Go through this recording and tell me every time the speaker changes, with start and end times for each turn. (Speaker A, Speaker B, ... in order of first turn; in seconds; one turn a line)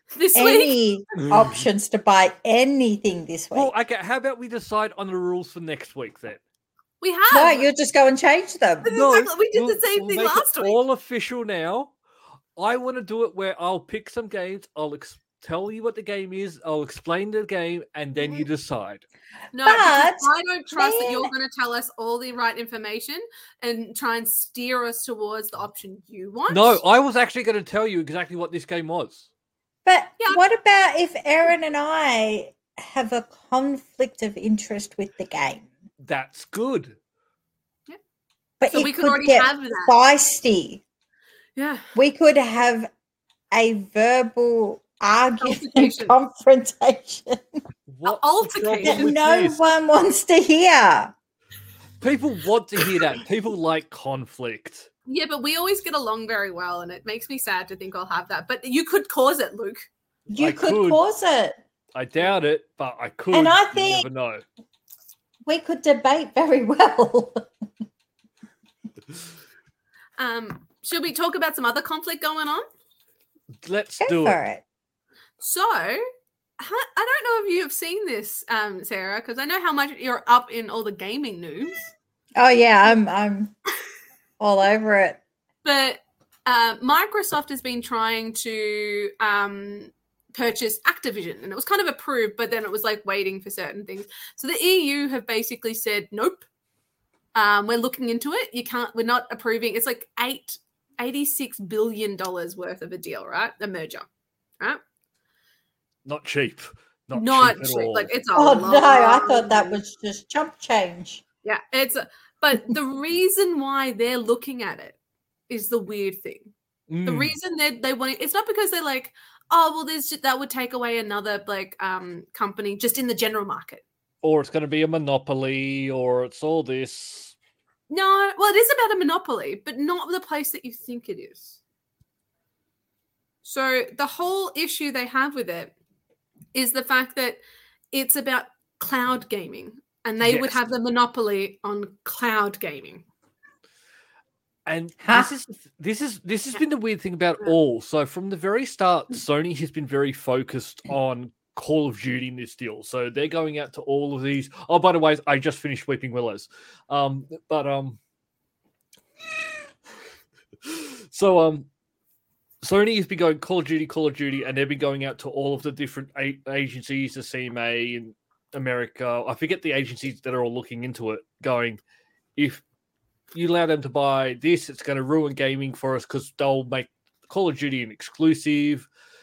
Speaker A: 0.1-0.8
Speaker B: 0.3-3.7
Speaker C: 3.5-6.4
Speaker A: 7.0-7.7
Speaker B: 7.3-8.9
Speaker A: 8.8-10.8
Speaker C: 8.9-11.9
Speaker C: 12.6-19.0
Speaker A: 18.2-18.5
Speaker A: 19.5-26.8
Speaker B: 19.6-21.3
Speaker C: 26.5-29.3
Speaker B: 29.9-35.7
Speaker C: 36.0-37.0
Speaker B: 38.6-40.8
Speaker A: 38.7-39.9
Speaker A: 41.6-41.9
Speaker B: 42.0-42.9
Speaker B: 43.5-47.6
Speaker A: 45.4-46.2
Speaker C: 47.9-49.6
Speaker A: 48.0-49.1
Speaker B: 48.8-51.1
Speaker C: 52.0-54.9
Speaker A: 55.1-59.9
Speaker B: 60.3-61.6
Speaker C: 60.4-61.0
Speaker C: 62.0-64.4
Speaker B: 63.3-64.1
Speaker B: 65.5-67.5
Speaker A: 70.2-72.7
Speaker C: 73.6-74.4
Speaker B: 74.0-74.6
Speaker A: 75.4-76.0
Speaker A: 76.6-81.8
Speaker B: 82.4-83.5
Speaker B: 84.4-85.2
Speaker A: 85.7-96.4
Speaker A: 97.3-104.1
Speaker C: 106.1-108.1
Speaker A: 107.1-109.8
Speaker B: 108.3-111.2
Speaker A: 111.4-115.0
Speaker A: 115.5-116.5
Speaker C: 116.9-117.3
Speaker A: 117.1-123.8
Speaker C: 124.2-127.3
Speaker A: 127.9-131.6
Speaker A: 133.4-135.7
Speaker A: 136.5-137.4
Speaker A: 137.9-143.0
Speaker C: 140.2-140.6
Speaker C: 144.7-158.0
Speaker B: 145.0-145.3
Speaker C: 160.7-161.7
Speaker C: 162.6-171.8
Speaker C: 172.4-172.6
Speaker C: 173.3-178.9